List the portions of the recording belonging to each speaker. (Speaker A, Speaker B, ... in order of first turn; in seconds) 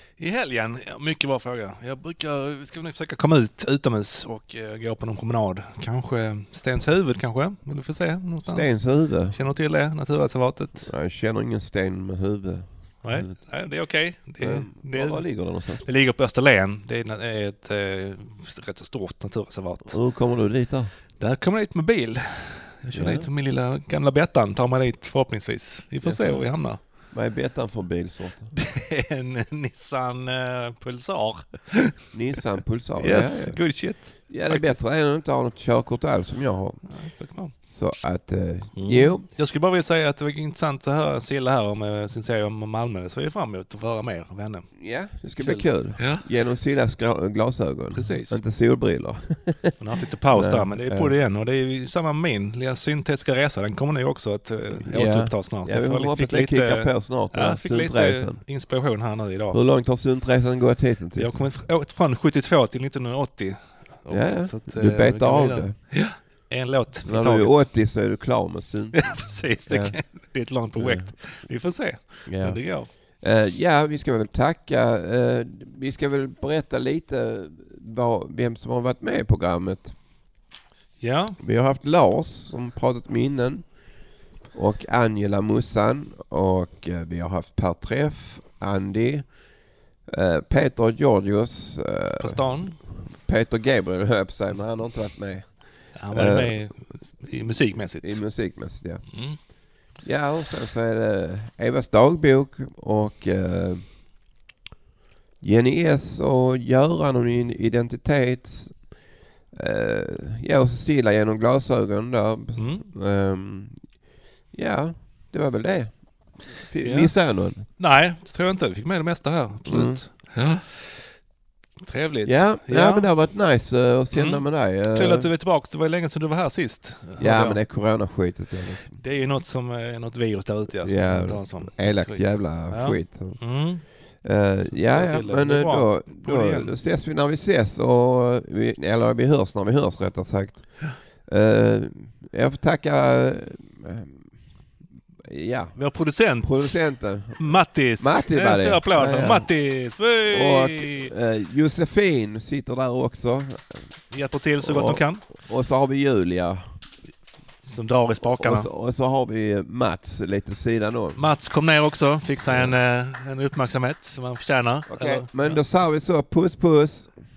Speaker A: 0.2-10.9, 13.0-15.2, 15.8-20.0, 21.2-26.8, 28.5-31.9, 33.0-34.8, 36.9-37.5, 38.8-44.7, 45.3-46.2, 47.9-48.4, 49.8-59.6, 61.1-67.7, 69.0-72.9, 81.0-81.4, 92.2-92.8, 96.0-98.2, 99.1-99.4, 112.6-112.9, 116.8-117.1, 117.7-121.0, 121.8-123.1, 124.1-127.6, 128.9-133.9, 134.6-136.7, 145.8-151.1, 154.1-155.3, 157.6-158.7, 161.2-165.6
Speaker B: 8.4-9.4, 10.8-13.3, 14.4-15.8, 19.9-20.9, 22.9-23.3, 26.0-28.5, 32.1-33.8, 34.3-36.8, 37.7-39.2, 44.8-49.8, 50.3-51.1, 54.9-58.4, 59.5-61.4, 64.1-65.7, 67.0-70.0, 70.8-71.0, 72.2-79.9, 81.4-83.7, 84.5-89.3, 90.1-96.5, 98.0-99.0, 100.0-103.8, 105.4-108.8, 109.5-113.8, 114.5-117.6, 119.7-120.0, 122.2-125.3, 127.2-128.9, 130.8-133.7, 134.2-144.3, 145.3-145.8, 146.4-149.5, 150.3-153.8, 154.6-156.8, 158.2-161.2, 162.5-162.7, 164.9-167.1